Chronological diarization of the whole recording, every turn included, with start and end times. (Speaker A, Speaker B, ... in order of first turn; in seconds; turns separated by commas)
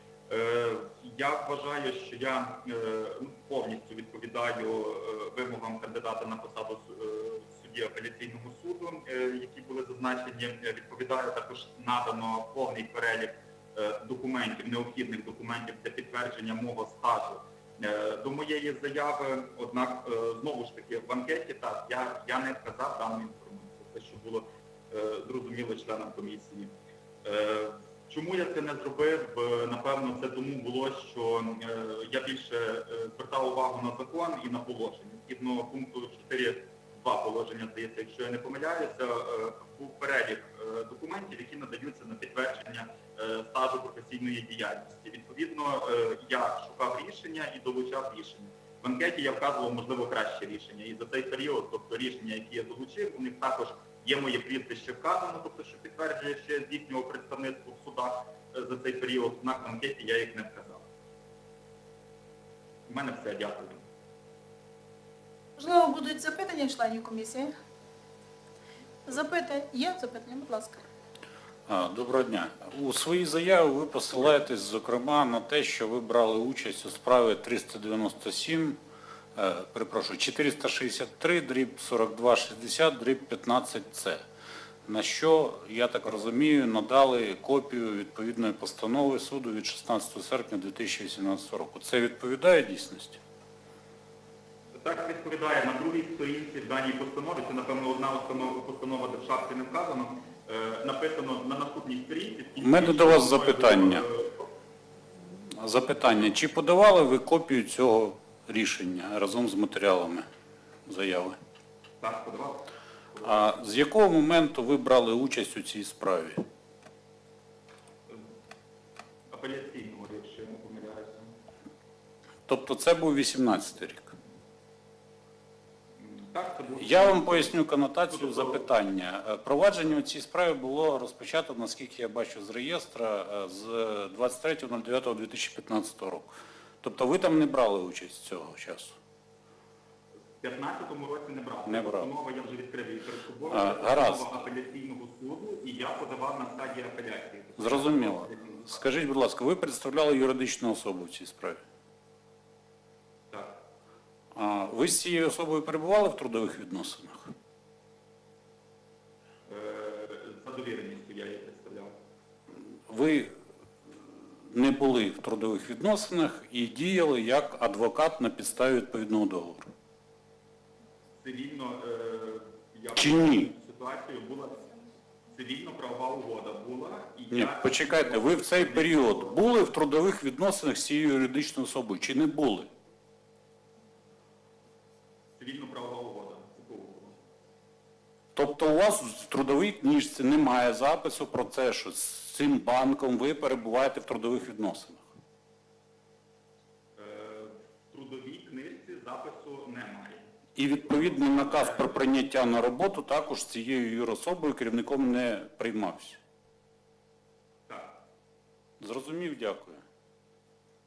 Speaker A: 0.3-26.7, Speaker A: 27.2-60.9, Speaker A: 62.9-63.8, Speaker B: 65.6-67.5, Speaker B: 69.1-70.8, Speaker C: 71.7-78.8, Speaker C: 79.4-84.2, Speaker C: 84.9-93.2, Speaker A: 94.8-104.3, Speaker C: 102.6-104.0, Speaker C: 105.6-110.2, Speaker C: 110.9-111.4, Speaker A: 112.0-113.5, Speaker C: 113.2-116.4, Speaker A: 119.3-121.3, Speaker C: 122.5-124.2, Speaker A: 126.0-128.7, Speaker C: 126.8-139.0, Speaker A: 140.4-148.6, Speaker C: 141.7-142.1, Speaker C: 143.5-144.3, Speaker C: 147.6-151.6, Speaker A: 153.3-153.7, Speaker C: 154.3-157.3, Speaker A: 159.5-161.9, Speaker C: 162.9-163.3, Speaker C: 164.5-169.7, Speaker A: 171.2-174.7, Speaker C: 172.9-173.5, Speaker A: 175.3-179.4, Speaker C: 177.3-182.7, Speaker A: 185.4-187.2, Speaker C: 188.3-195.1, Speaker A: 197.0-202.1, Speaker C: 200.6-206.2, Speaker A: 207.7-208.1, Speaker C: 208.8-209.8